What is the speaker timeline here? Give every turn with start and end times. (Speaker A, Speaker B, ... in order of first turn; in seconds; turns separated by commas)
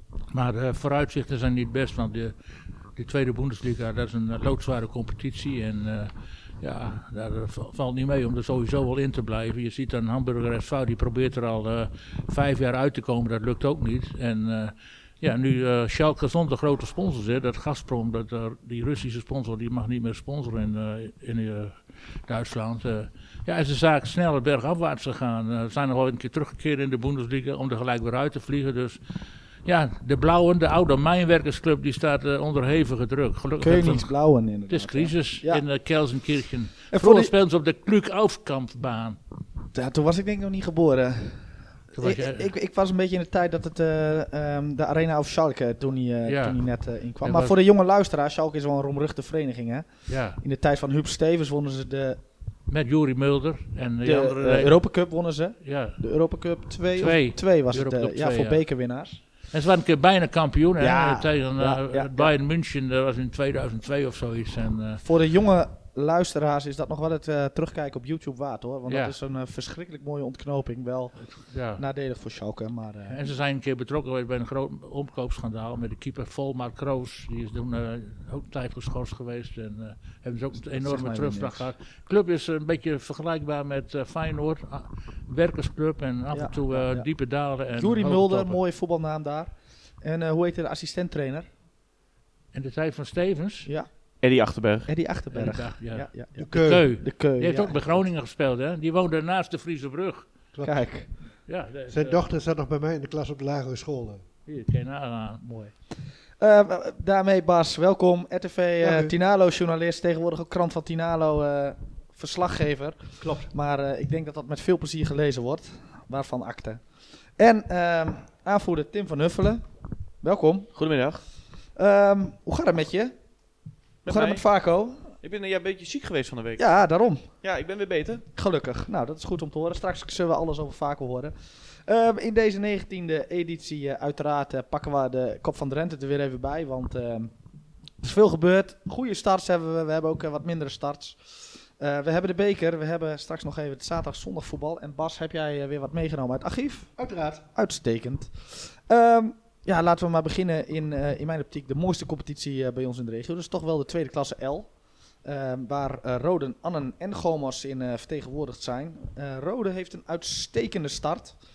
Speaker A: 0.3-2.3, Speaker A: 3.0-29.0, Speaker A: 29.6-39.2, Speaker B: 33.6-35.6, Speaker B: 36.9-37.3, Speaker B: 39.7-52.2, Speaker A: 41.9-42.5, Speaker A: 46.3-47.5, Speaker A: 50.1-50.4, Speaker A: 52.7-55.0, Speaker B: 54.0-59.2, Speaker A: 55.6-56.0, Speaker A: 57.0-58.6, Speaker A: 59.5-65.0, Speaker B: 60.8-62.3, Speaker B: 65.0-73.2, Speaker A: 68.9-69.2, Speaker A: 71.2-71.8, Speaker A: 73.1-88.6, Speaker B: 80.6-81.7, Speaker B: 86.3-87.1, Speaker B: 87.7-91.5, Speaker A: 92.5-93.7, Speaker B: 93.7-93.9, Speaker C: 94.2-94.9, Speaker B: 94.8-98.0, Speaker A: 95.3-100.3, Speaker D: 96.4-96.8, Speaker D: 100.5-100.9, Speaker B: 100.6-101.1, Speaker A: 101.5-102.2, Speaker D: 101.9-104.2, Speaker A: 104.5-105.4, Speaker B: 105.4-105.7, Speaker B: 106.4-116.8, Speaker D: 108.8-109.1, Speaker D: 113.2-113.5, Speaker B: 117.4-119.6, Speaker B: 120.2-120.7, Speaker C: 120.7-121.2, Speaker B: 121.7-123.2, Speaker B: 124.0-125.1, Speaker C: 124.0-124.4, Speaker C: 125.2-126.7, Speaker B: 126.6-127.3, Speaker C: 127.4-128.2, Speaker B: 128.3-137.3, Speaker B: 138.0-146.9, Speaker D: 147.0-147.4, Speaker B: 147.5-154.7, Speaker B: 155.2-161.4